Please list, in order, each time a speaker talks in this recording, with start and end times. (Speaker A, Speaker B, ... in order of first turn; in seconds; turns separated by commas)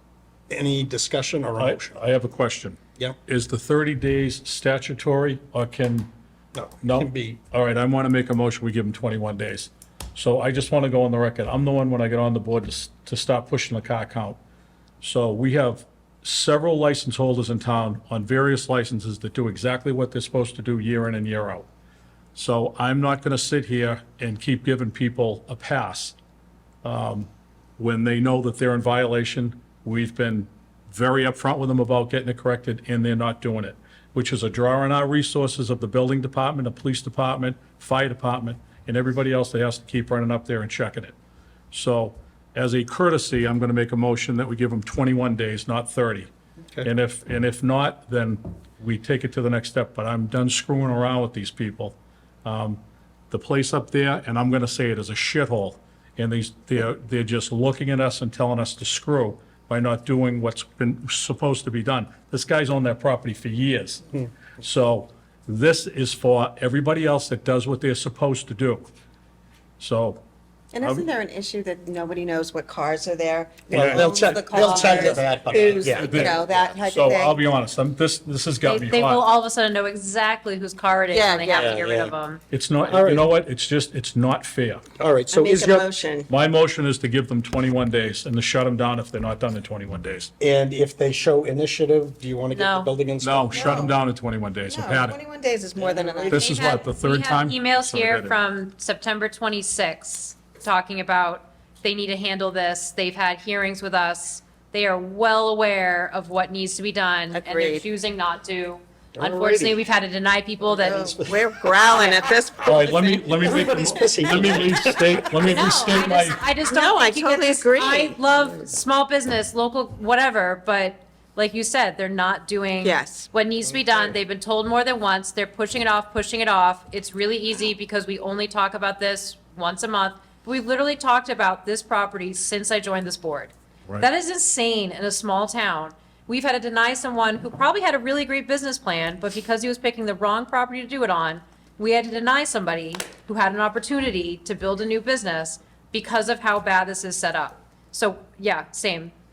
Speaker A: 0.5-1.9, Speaker B: 1.6-6.1, Speaker A: 6.5-7.4, Speaker B: 6.8-14.4, Speaker B: 15.0-21.7, Speaker B: 22.3-26.1, Speaker B: 26.8-41.1, Speaker B: 41.7-46.3, Speaker B: 46.8-52.8, Speaker B: 53.3-64.0, Speaker B: 64.6-68.9, Speaker B: 69.8-70.2, Speaker C: 70.7-77.4, Speaker B: 70.8-71.1, Speaker A: 73.7-76.4, Speaker B: 73.7-74.1, Speaker B: 75.5-79.3, Speaker D: 78.6-82.4, Speaker C: 81.1-81.7, Speaker A: 81.5-82.1, Speaker B: 82.5-84.8, Speaker A: 82.8-83.2, Speaker A: 85.0-85.8, Speaker C: 85.3-86.2, Speaker B: 86.3-90.3, Speaker A: 90.4-93.9, Speaker D: 92.5-92.9, Speaker B: 93.2-95.2, Speaker C: 93.5-93.9, Speaker C: 94.7-96.5, Speaker B: 96.0-98.4, Speaker D: 96.3-111.1, Speaker C: 107.3-107.8, Speaker A: 109.2-109.8, Speaker A: 110.8-111.5, Speaker C: 110.8-113.2, Speaker B: 112.6-116.4, Speaker A: 113.2-115.6, Speaker D: 115.4-149.1, Speaker C: 116.6-118.3, Speaker C: 122.8-123.3